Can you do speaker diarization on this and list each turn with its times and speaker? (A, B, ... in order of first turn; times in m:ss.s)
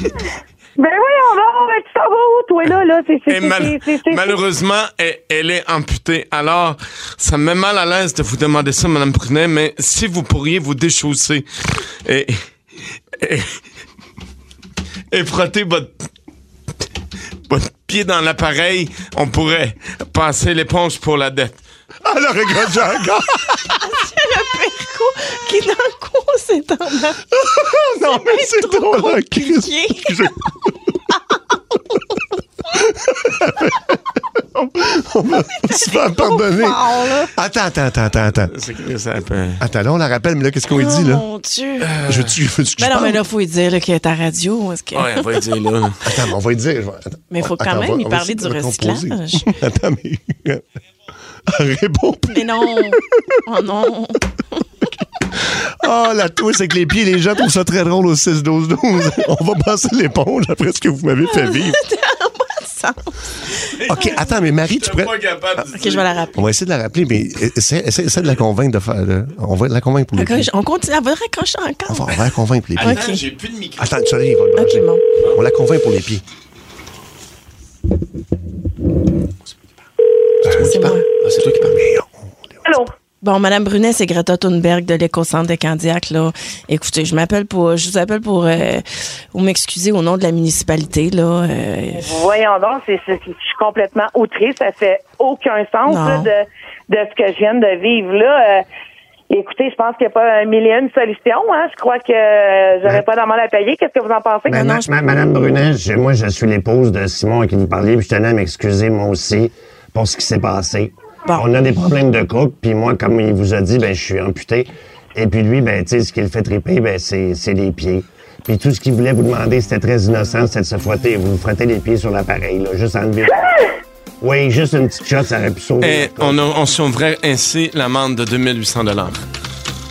0:00.8-0:04.4 A
0:03.3-0:12.4 B
0:13.2-0:13.6 B
0:15.1-0:15.9 B
0:17.5-0:21.6 B
0:22.0-0:23.8 C
0:23.8-0:27.2 D
0:27.3-0:30.8 C
0:28.0-0:30.3 D
0:32.7-0:38.5 C
0:35.5-0:37.3 D
0:38.5-0:39.6 B
0:39.6-0:41.3 C
0:40.7-0:41.9 D
0:41.8-0:42.4 B
0:42.0-0:43.2 C
0:42.8-0:45.3 D
0:44.9-0:46.1 B
0:46.0-0:50.6 C
0:47.3-0:49.5 D
0:51.5-0:53.4 C
0:52.3-0:54.2 D
0:55.8-1:01.8 C
1:01.2-1:03.2 D
1:03.6-1:06.1 B
1:03.9-1:05.1 C
1:03.9-1:04.2 D
1:05.7-1:06.4 D
1:06.3-1:10.5 C
1:10.2-1:12.2 D
1:11.9-1:13.0 C
1:12.8-1:13.9 B
1:12.8-1:13.2 D
1:13.8-1:16.2 C
1:14.6-1:15.0 D
1:20.4-1:22.3 C
1:20.6-1:21.0 D
1:21.3-1:21.7 B
1:22.6-1:22.9 A
1:23.2-1:32.1 D
1:31.9-1:38.6 A
1:35.9-1:36.3 D
1:39.3-1:44.8 A
1:44.5-2:03.6 E
1:44.5-1:44.9 D
2:04.2-2:06.4 E
2:05.8-2:09.2 B